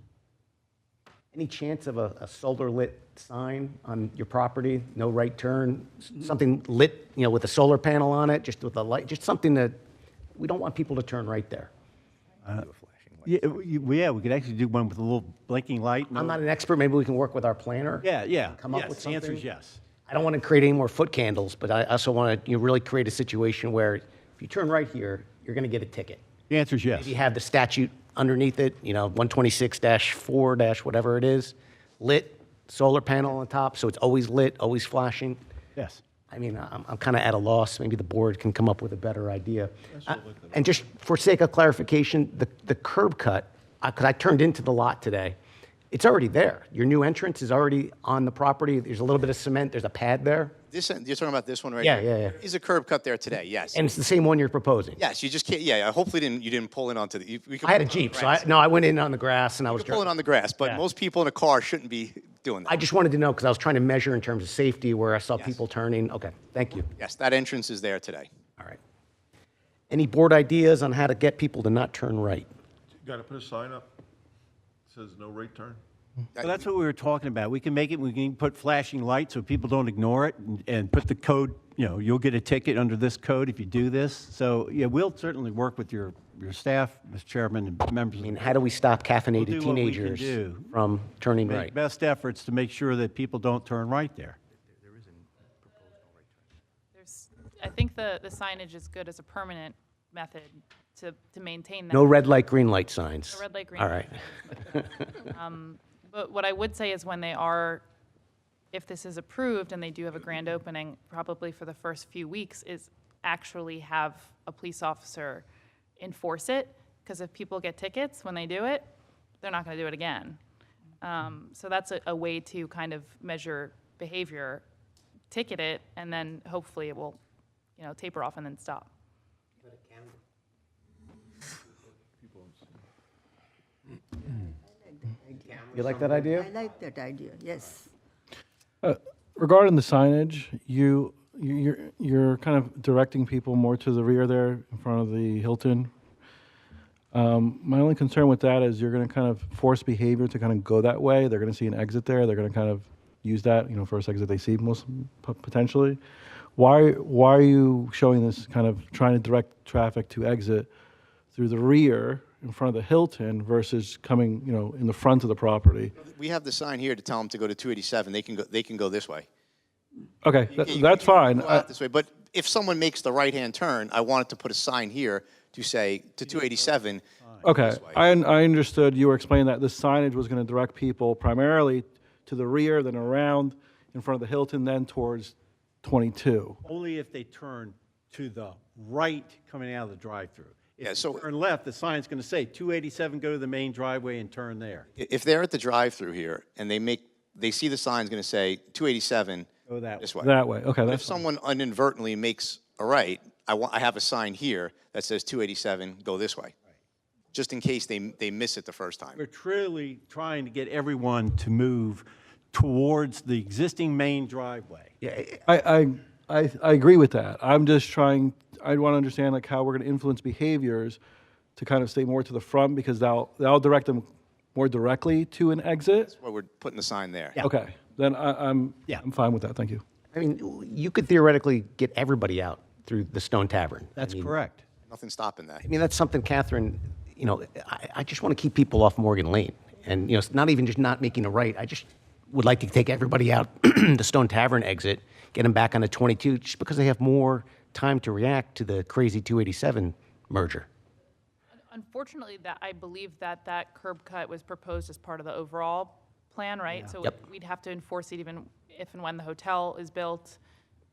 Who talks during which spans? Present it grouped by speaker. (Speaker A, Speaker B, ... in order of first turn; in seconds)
Speaker A: 1.3-9.7, 10.3-11.7, 16.1-18.1, 18.6-19.4, 20.1-26.2, 26.9-35.4, 36.3-45.4, 45.9-50.5, 51.8-52.4, 53.7-55.0, 57.6-60.1, 62.6-66.9, 69.9-72.5, 88.2-91.7, 101.9-104.2, 135.7-136.5, 215.0-215.4, 230.1-234.3, 235.6-250.7
Speaker B: 12.5-13.6, 50.7-53.8, 55.0-58.5, 59.7-62.8, 67.0-68.3, 76.3-76.7, 166.0-169.3, 170.5-178.0, 190.8-191.2, 195.0-199.5, 200.0-200.3, 200.8-206.5, 207.3-209.2, 226.1-227.4, 234.9-235.6
Speaker C: 13.2-16.4, 18.0-19.8, 26.5-27.1, 35.8-36.0, 76.4-88.4, 89.4-90.7, 91.4-94.4, 177.2-177.5, 186.6-194.8, 199.7-200.1, 209.2-214.9, 233.9-234.6
Speaker D: 40.1-40.5, 73.0-73.9, 74.9-75.8, 132.2-132.7
Speaker E: 96.9-102.1, 103.3-107.8, 108.7-115.5, 116.0-120.4, 121.0-124.6, 125.3-127.2, 127.8-128.9, 251.7-260.4
Speaker F: 134.2-137.9
Speaker G: 138.8-145.9, 147.1-156.0, 156.6-160.7, 161.3-165.9, 170.2-171.7, 177.4-186.6, 200.2-201.1, 215.5-221.0, 221.6-226.1, 227.4-229.8